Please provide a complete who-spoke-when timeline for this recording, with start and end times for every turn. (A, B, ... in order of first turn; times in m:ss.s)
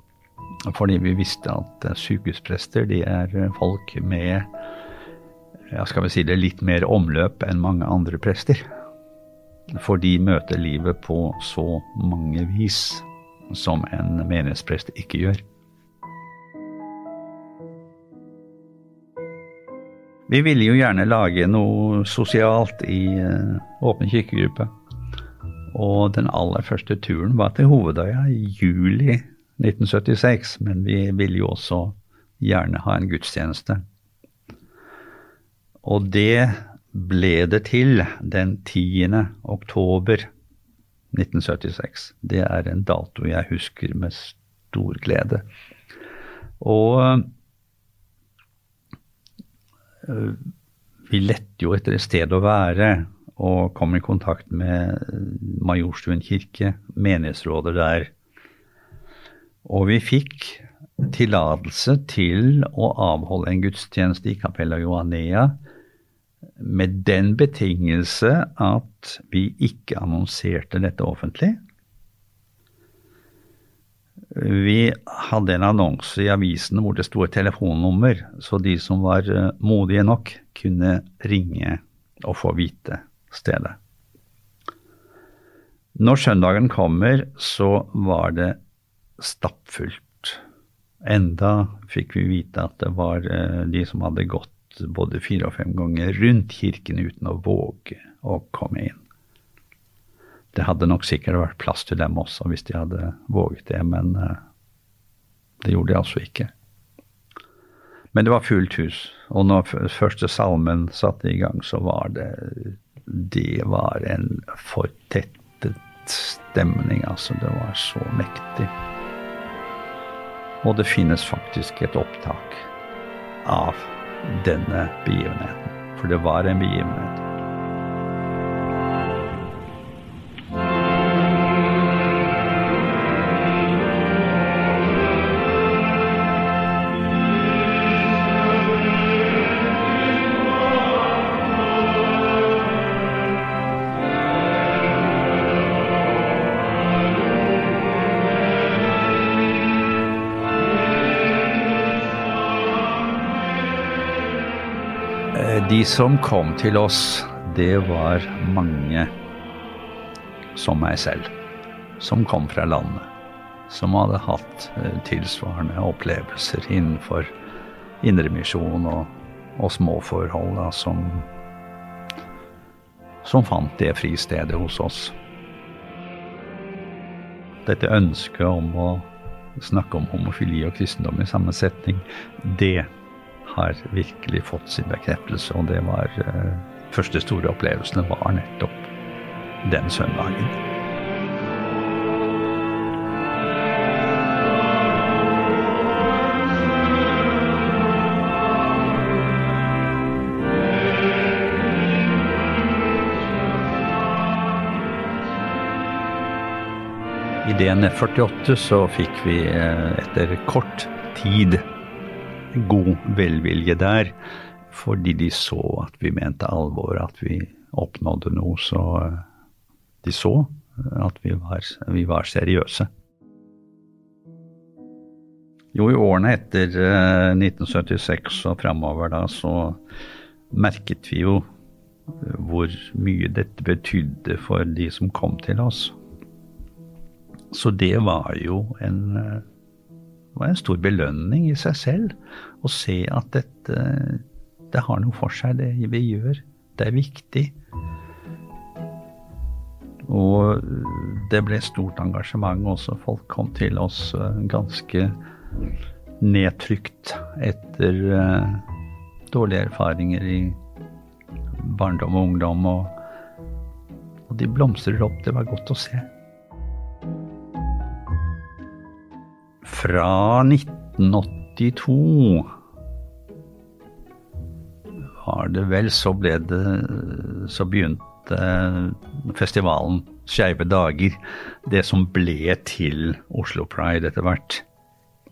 0:00.6-0:04.5 A
0:05.7-0:08.6 A
0:09.7-0:15.4 A
0:20.3-0:24.7 A
0:25.7-0:33.8 A
0:35.8-0:40.3 A
0:41.1-0:45.4 A
0:46.6-0:47.3 A
0:50.0-0:50.4 A
0:51.1-0:58.1 A
0:59.6-1:05.6 A
1:06.6-1:11.6 A
1:14.3-1:23.8 A
1:26.0-1:28.6 A
1:29.2-1:30.4 A
1:31.0-1:39.0 A
1:40.5-1:44.4 A
1:45.6-1:46.5 A
1:48.1-1:58.7 A
2:00.6-2:02.7 A
2:03.4-2:07.2 A
2:35.3-2:39.1 A
2:40.6-2:41.3 A
2:42.0-2:43.1 A
2:43.7-2:47.3 A
2:48.0-2:51.3 A
2:53.2-2:55.2 A
2:57.7-3:02.9 A
3:03.4-3:08.9 A
3:09.6-3:10.6 A
3:27.4-3:31.6 A
3:32.5-3:34.2 A
3:34.7-3:39.2 A
3:40.0-3:42.9 A
3:45.7-3:49.8 A
3:50.5-3:51.4 A
3:52.2-3:56.0 A
3:57.5-3:59.4 A
4:00.4-4:07.6 A
4:10.0-4:15.2 A
4:16.2-4:18.6 A
4:19.3-4:20.6 A
4:21.6-4:22.9 A
4:24.3-4:26.1 A
4:29.6-4:32.5 A
4:35.2-4:44.6 A